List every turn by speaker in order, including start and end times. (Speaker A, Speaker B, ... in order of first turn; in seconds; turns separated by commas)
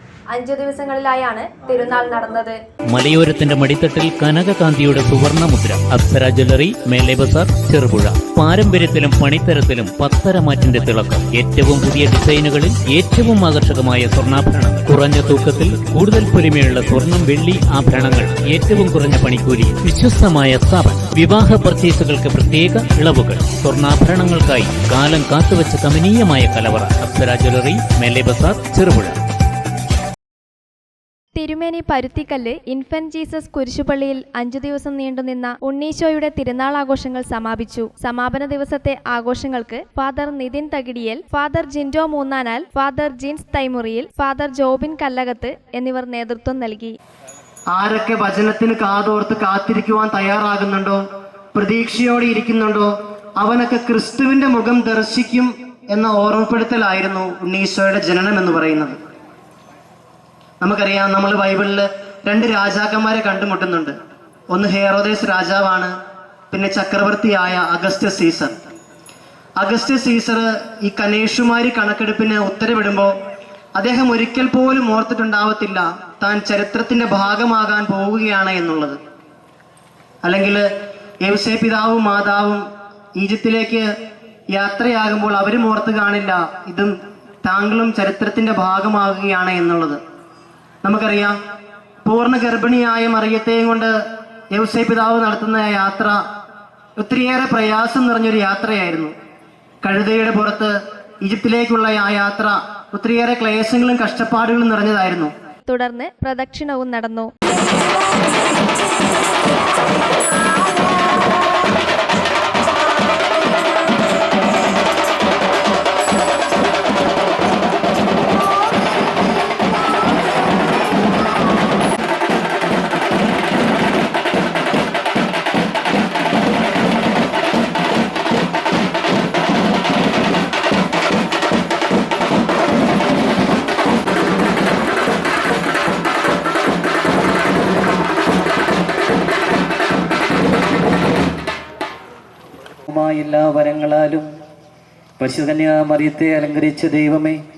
Speaker A: 0.3-2.6, Speaker B: 2.9-29.2, Speaker A: 31.3-46.9, Speaker C: 47.7-51.0, Speaker C: 51.5-59.0, Speaker C: 60.6-63.9, Speaker C: 64.5-65.9, Speaker C: 66.5-68.5, Speaker C: 69.6-73.1, Speaker C: 73.8-79.0, Speaker C: 80.2-80.7, Speaker C: 81.2-82.6, Speaker C: 83.2-83.9, Speaker C: 84.5-86.9, Speaker C: 87.4-90.0, Speaker C: 90.8-91.3, Speaker C: 92.0-93.9, Speaker C: 94.5-96.2, Speaker C: 97.0-99.1, Speaker C: 99.8-105.3, Speaker A: 105.7-107.8, Speaker A: 110.2-110.8, Speaker D: 142.9-144.3, Speaker D: 145.2-147.4